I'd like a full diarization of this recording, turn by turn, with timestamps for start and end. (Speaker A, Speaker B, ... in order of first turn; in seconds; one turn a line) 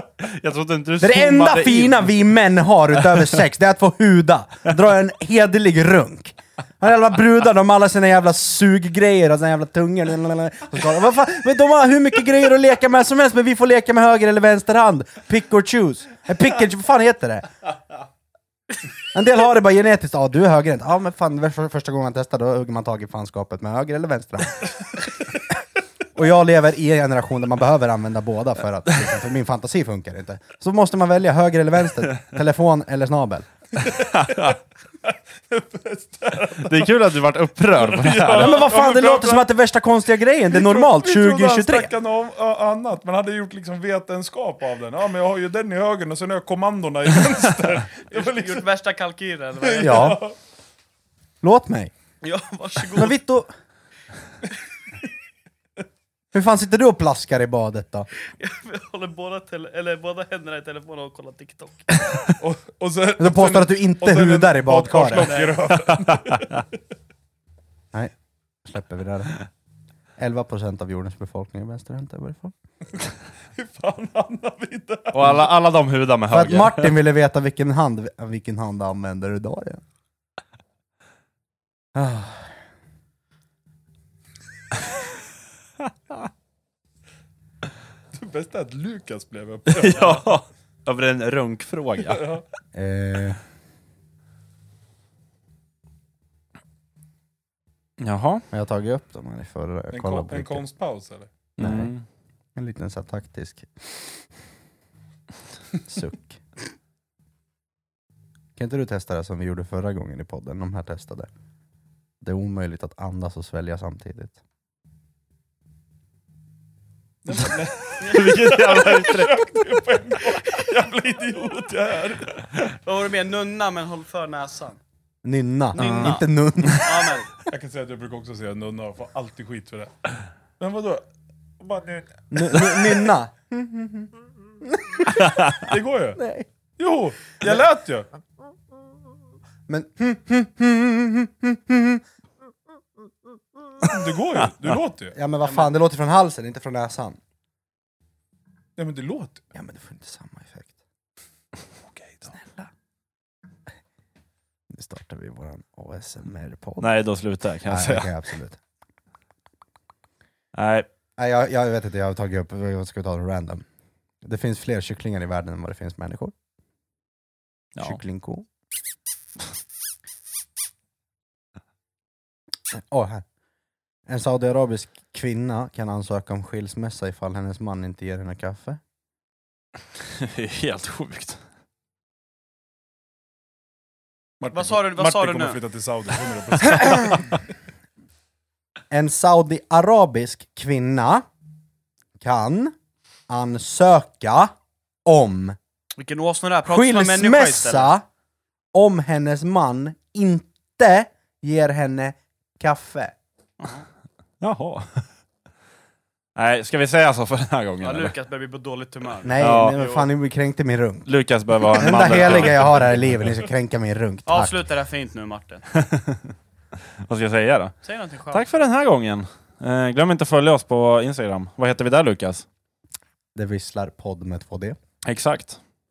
Speaker A: 0.2-2.1
Speaker B: 1.0-17.5
Speaker B: 19.1-25.5
Speaker B: 26.1-33.5
Speaker C: 33.8-37.0
Speaker A: 34.1-34.6
Speaker A: 36.6-38.7
Speaker C: 37.8-39.5
Speaker B: 38.3-41.9
Speaker C: 40.5-48.7
Speaker D: 48.1-50.2
Speaker C: 49.6-50.4
Speaker B: 49.8-50.2
Speaker B: 51.4-51.9
Speaker D: 52.2-53.2
Speaker B: 52.9-53.5
Speaker B: 56.3-58.1
Speaker D: 58.4-62.0
Speaker C: 62.4-66.6
Speaker B: 63.2-65.3
Speaker D: 65.1-65.6
Speaker B: 68.6-69.4
Speaker B: 70.2-72.5
Speaker C: 73.6-75.5
Speaker A: 75.1-76.9
Speaker B: 76.3-79.8
Speaker B: 82.0-82.5
Speaker C: 88.1-90.2
Speaker A: 89.7-92.2
Speaker C: 92.1-92.4
Speaker B: 92.7-93.4
Speaker A: 98.0-98.4
Speaker B: 98.5-100.6
Speaker C: 99.9-101.3
Speaker A: 101.6-102.0
Speaker B: 101.6-101.9
Speaker B: 102.5-104.2
Speaker B: 105.9-106.4
Speaker B: 108.6-111.3
Speaker B: 112.2-114.4
Speaker C: 117.2-122.4
Speaker A: 118.0-119.4
Speaker D: 122.8-124.8
Speaker B: 125.2-127.5
Speaker D: 125.7-127.3
Speaker A: 125.8-126.1
Speaker C: 127.5-131.1
Speaker C: 131.6-132.8
Speaker B: 132.3-136.5
Speaker A: 135.2-135.6
Speaker C: 135.5-136.2
Speaker C: 136.8-138.1
Speaker B: 139.7-142.0
Speaker C: 143.8-145.2
Speaker B: 145.2-147.2
Speaker C: 148.8-149.4
Speaker B: 149.5-150.7
Speaker C: 151.8-152.3
Speaker B: 152.3-152.7
Speaker B: 154.7-156.9
Speaker A: 156.8-158.1
Speaker B: 157.7-158.6
Speaker A: 160.5-160.9
Speaker B: 161.2-163.7
Speaker B: 164.2-166.3
Speaker B: 167.8-168.5
Speaker B: 172.7-173.2
Speaker B: 174.1-178.8
Speaker A: 180.2-181.4
Speaker C: 184.4-187.3
Speaker D: 184.5-185.6
Speaker B: 188.9-191.2
Speaker B: 192.2-192.8
Speaker B: 193.3-194.5
Speaker B: 195.1-195.6
Speaker D: 196.0-197.9
Speaker B: 196.7-198.1
Speaker B: 198.7-203.2
Speaker A: 204.4-205.1
Speaker A: 206.4-208.1
Speaker D: 207.8-210.1
Speaker B: 209.2-211.1
Speaker A: 209.4-209.8
Speaker A: 211.1-213.3
Speaker B: 211.7-214.7
Speaker D: 214.3-215.7
Speaker A: 215.7-216.3
Speaker A: 217.0-217.8
Speaker D: 217.8-218.5
Speaker A: 218.3-222.5
Speaker B: 223.3-224.8
Speaker A: 225.1-225.6